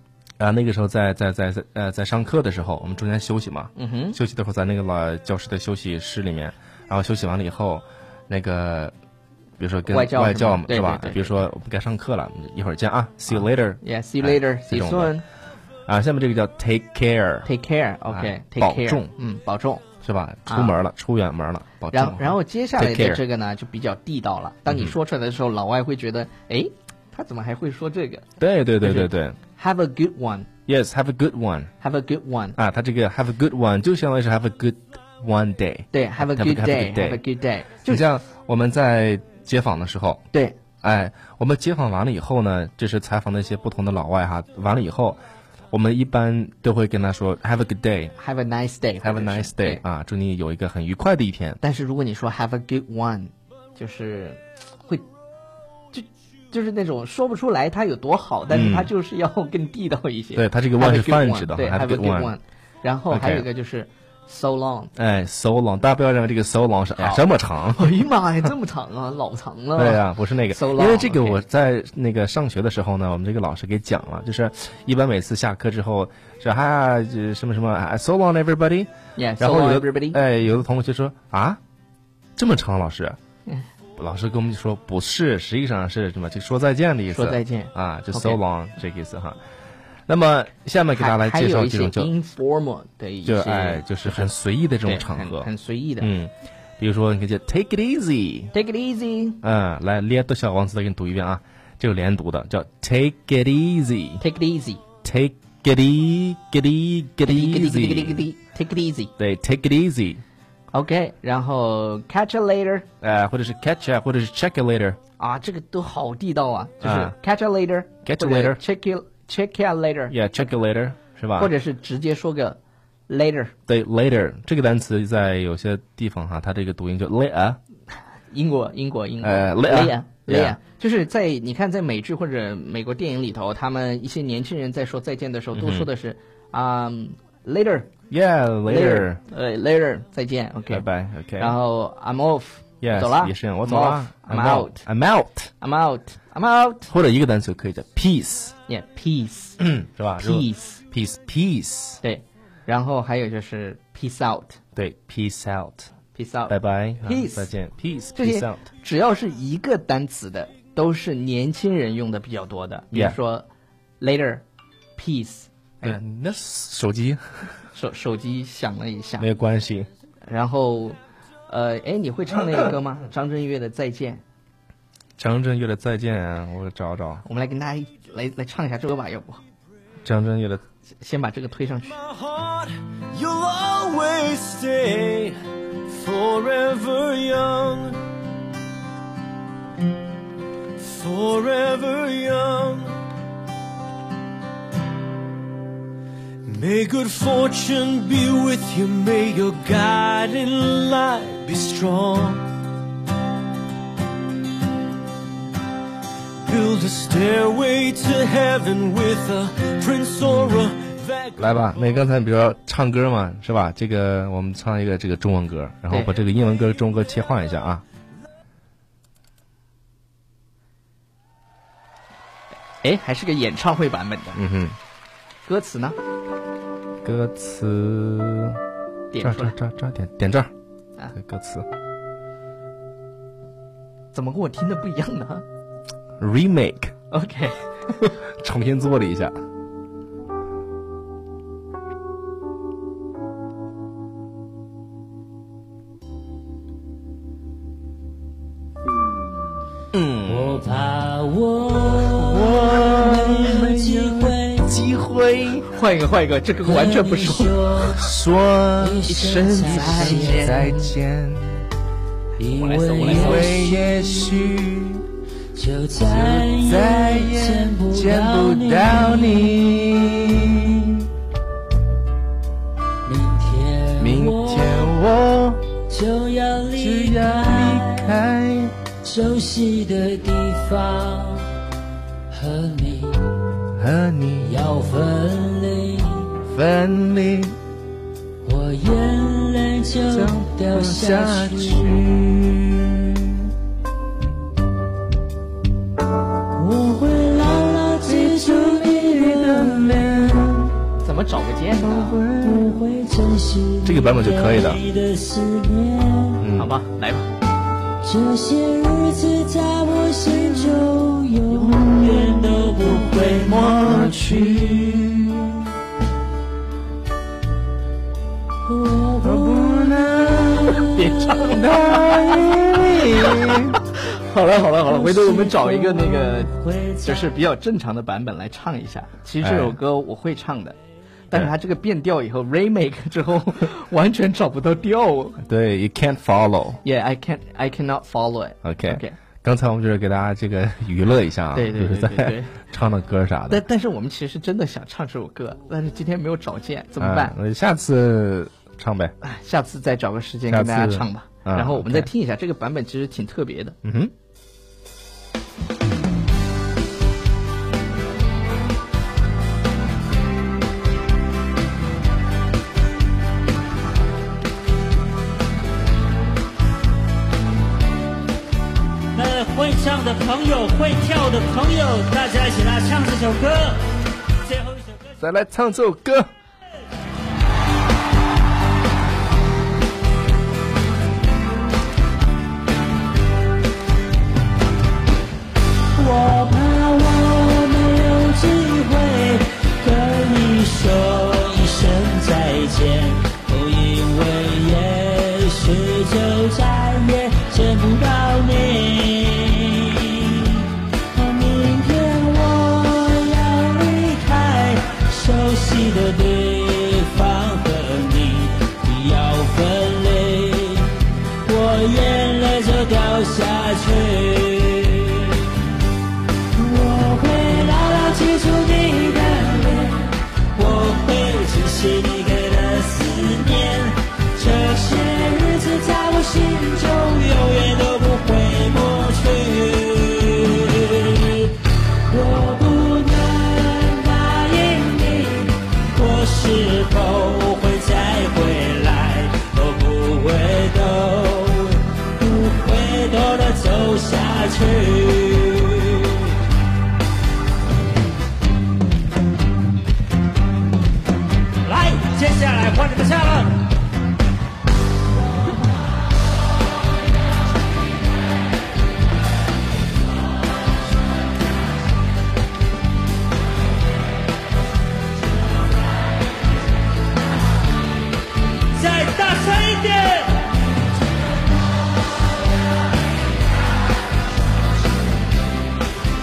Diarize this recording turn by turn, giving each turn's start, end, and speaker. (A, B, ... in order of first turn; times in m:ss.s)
0:00.4-0:08.9 A
0:03.8-0:04.2 B
0:09.6-0:15.2 A
0:09.9-0:11.3 B
0:13.3-0:15.2 B
0:15.9-0:17.5 A
0:17.4-0:19.9 B
0:18.1-0:19.1 A
0:20.0-0:23.2 A
0:20.5-0:20.8 B
0:21.9-0:28.3 B
0:24.7-0:25.0 A
0:28.4-0:29.4 A
0:28.8-0:30.5 B
0:30.7-0:31.7 A
0:31.8-0:32.6 B
0:32.6-0:37.2 A
0:35.9-0:38.0 B
0:37.9-0:40.2 A
0:40.3-0:40.6 B
0:40.8-0:45.2 A
0:45.7-0:48.2 A
0:48.2-0:49.8 B
0:49.0-0:51.6 A
0:51.6-0:55.0 B
0:55.9-1:04.9 B
0:58.5-0:58.9 A
1:00.4-1:02.4 A
1:03.1-1:03.5 A
1:05.0-1:08.0 A
1:07.0-1:07.2 B
1:07.7-1:11.4 B
1:09.8-1:21.6 A
1:19.2-1:20.2 B
1:22.4-1:23.2 A
1:24.0-1:29.4 A
1:27.1-1:28.4 B
1:30.1-1:32.1 A
1:31.0-1:34.3 B
1:33.2-1:35.5 A
1:34.8-1:36.1 B
1:36.0-1:38.5 A
1:38.5-1:39.4 B
1:39.4-1:44.2 A
1:44.2-1:44.8 B
1:45.0-1:48.3 A
1:47.2-1:49.1 B
1:49.2-1:50.2 A
1:50.7-1:52.9 B
1:53.0-1:55.0 A
1:55.2-2:00.2 B
1:56.8-1:57.2 A
1:58.0-1:58.6 A
2:00.1-2:01.5 A
2:01.4-2:03.5 B
2:03.7-2:07.6 A
2:08.3-2:17.9 B
2:09.2-2:10.6 A
2:15.6-2:15.9 A
2:18.1-2:19.2 A
2:18.7-2:20.9 B
2:20.7-2:21.6 A
2:21.4-2:24.8 B
2:22.8-2:25.5 A
2:25.6-2:26.9 B
2:26.9-2:28.6 A
2:28.7-2:29.6 B
2:29.6-2:32.0 A
2:30.2-2:30.8 B
2:32.0-2:34.6 B
2:34.8-2:35.9 A
2:36.1-2:37.5 B
2:36.5-2:38.6 A
2:38.2-2:43.5 B
2:42.9-2:43.2 A
2:44.0-2:44.4 B
2:45.0-2:46.0 B
2:45.8-2:47.2 A
2:47.7-2:49.3 B
2:49.2-2:49.9 A
2:50.3-2:54.2 B
2:55.2-2:57.2 A
2:57.2-2:59.4 B
3:00.0-3:00.6 A
3:01.0-3:02.0 B
3:02.0-3:08.0 C
3:10.8-3:13.0 C
3:16.4-3:22.5 C
3:26.4-3:31.4 C
3:31.4-3:37.8 A
3:42.8-3:44.4 B
3:44.4-3:44.8 A
3:45.4-3:46.0 B
3:47.0-3:48.6 A
3:49.1-3:49.6 B
3:49.2-3:50.5 A
3:51.1-3:51.7 A
3:54.1-3:55.4 B
3:56.2-3:56.9 A
3:57.1-3:57.6 B
3:58.1-3:59.3 A
4:09.9-4:10.6 A
4:10.3-4:14.7 D
4:12.1-4:15.7 A
4:15.7-4:17.6 B
4:16.6-4:18.1 D
4:17.9-4:21.6 A
4:18.8-4:20.7 D
4:19.1-4:20.7 B
4:22.4-4:24.4 D
4:22.4-4:23.5 B
4:23.0-4:25.0 A
4:25.6-4:29.6 D
4:26.0-4:31.1 A
4:33.0-4:35.0 D
4:34.0-4:35.7 A
4:35.9-4:38.2 D
4:36.8-4:38.8 A
4:39.0-4:41.5 D
4:42.3-4:43.5 D
4:43.8-4:44.7 A
4:44.4-4:46.4 D
4:46.5-4:47.6 A
4:48.4-4:52.0 D
4:50.1-4:53.5 A
4:56.5-5:00.1 D
4:58.0-5:00.7 A
5:01.0-5:02.2 B
5:01.8-5:02.8 A
5:02.4-5:06.4 D
5:03.8-5:04.8 A
5:06.4-5:06.7 A
5:06.5-5:07.3 B
5:08.0-5:14.6 D
5:11.5-5:11.9 A
5:12.8-5:15.6 A
5:18.6-5:20.0 D
5:19.2-5:23.8 A
5:20.6-5:23.4 D
5:23.6-5:30.8 B
5:24.8-5:27.3 D
5:29.4-5:29.8 A
5:31.3-5:35.4 B
5:35.4-5:36.8 A
5:36.8-5:39.2 B
5:38.6-5:43.6 A
5:41.6-5:42.6 B
5:43.5-5:47.3 B
5:47.0-5:49.1 A
5:49.2-5:53.8 B
5:50.5-5:52.1 A
5:53.8-5:54.1 A
6:09.1-6:15.1 D
6:15.2-6:16.3 A
6:26.0-6:55.5 D
6:56.5-7:26.4 D
7:31.6-7:33.7 D
7:48.7-7:50.5 D